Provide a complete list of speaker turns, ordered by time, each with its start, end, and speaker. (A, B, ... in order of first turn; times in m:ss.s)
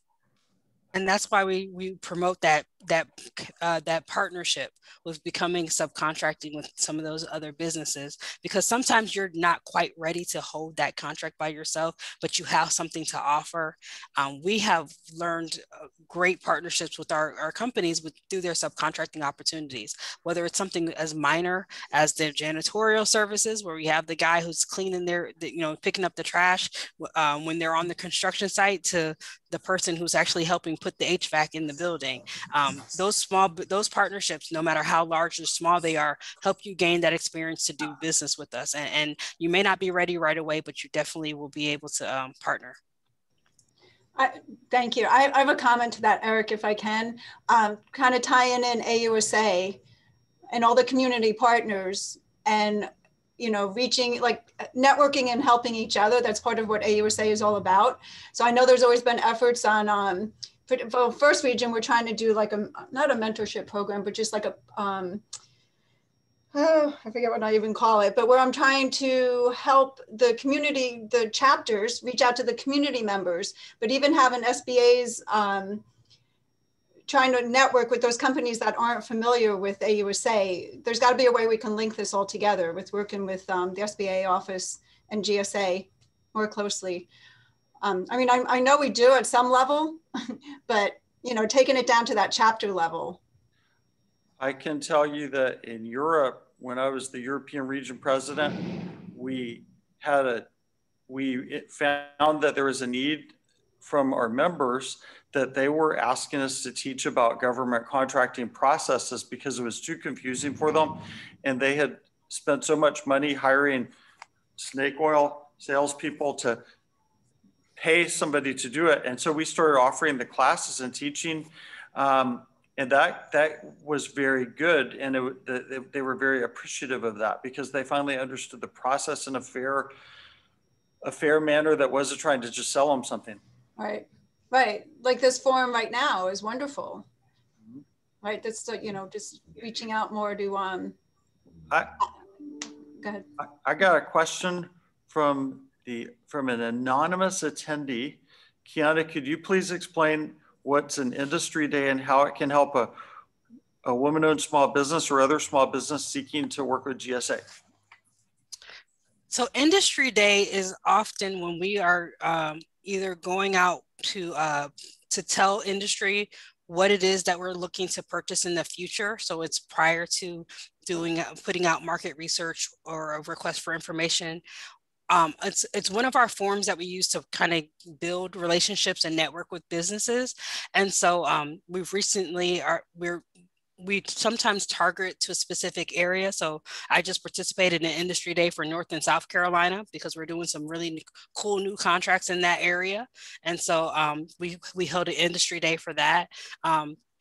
0:00.9-0:42.8 A
0:44.2-0:49.8 B
0:50.5-1:05.2 B
1:06.5-1:15.8 B
1:17.1-1:27.1 B
1:27.8-1:30.0 B
1:30.7-1:33.2 B
1:34.4-1:40.5 C
1:41.1-1:53.9 C
1:54.6-1:56.6 C
1:57.8-2:09.9 C
2:11.0-2:13.4 C
2:13.8-2:17.1 B
2:18.2-2:21.0 B
2:21.7-2:22.0 C
2:23.0-2:23.3 B
2:23.4-2:33.0 C
2:33.8-2:37.4 C
2:39.3-2:54.4 A
2:55.1-3:03.2 A
3:03.8-3:17.0 A